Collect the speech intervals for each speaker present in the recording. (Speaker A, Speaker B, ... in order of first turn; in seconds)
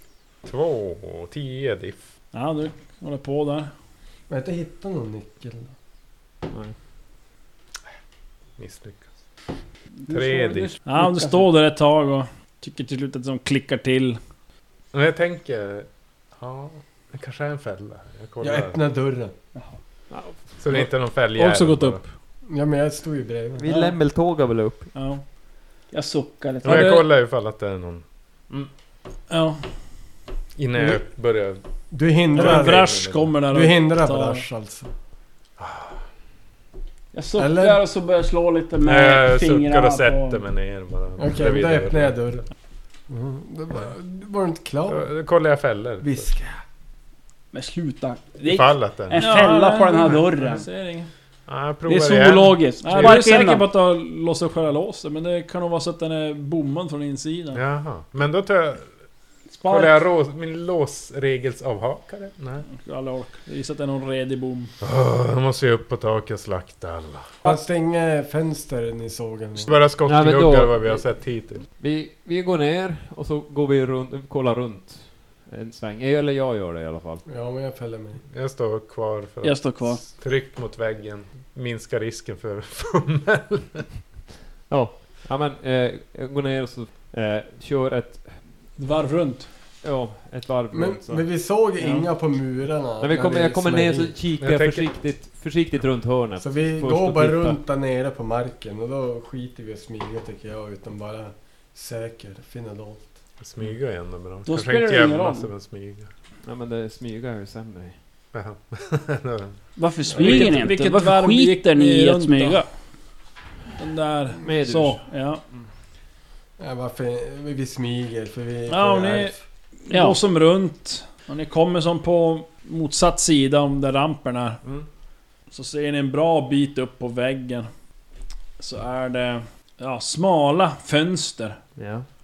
Speaker A: 0.4-2.0, 8.6-9.1, 10.1-10.7, 14.9-18.8, 20.6-22.0, 26.6-28.0, 30.6-31.6, 32.3-33.3, 35.6-36.0, 38.8-42.2, 44.9-46.3, 48.4-49.3, 51.5-53.2, 57.5-58.9, 59.6-62.6, 64.8-67.5, 69.6-71.6, 78.3-83.9, 94.4-94.9, 103.4-106.1, 108.3-109.6
Speaker B: 2.3-3.7, 10.8-14.2, 20.7-22.1, 24.9-25.2, 26.6-27.0, 29.3-29.6, 32.4-34.4, 49.1-51.1, 52.8-57.6, 62.7-64.7, 88.8-89.5, 110.2-112.6, 113.8-115.4, 118.7-119.3, 119.9-124.6, 125.5-127.7, 128.6-131.6
Speaker C: 4.3-5.7, 18.4-19.3, 22.5-23.7, 31.9-34.9, 37.4-37.8, 41.2-42.5, 43.1-45.0, 46.0-46.6, 67.4-69.7, 77.2-78.2, 90.7-94.2, 96.4-103.2, 110.1-110.5, 116.6-119.4
Speaker D: 10.0-11.5, 25.9-27.1, 37.1-40.4, 47.5-50.7, 51.9-53.6, 59.6-60.0, 79.4-80.0, 104.4-105.5, 109.8-112.7, 119.9-120.2
Speaker E: 20.1-20.5, 23.6-24.9, 70.0-77.2, 84.7-88.4, 89.8-91.2, 93.0-97.6, 106.4-108.0, 114.4-115.0, 131.8-132.1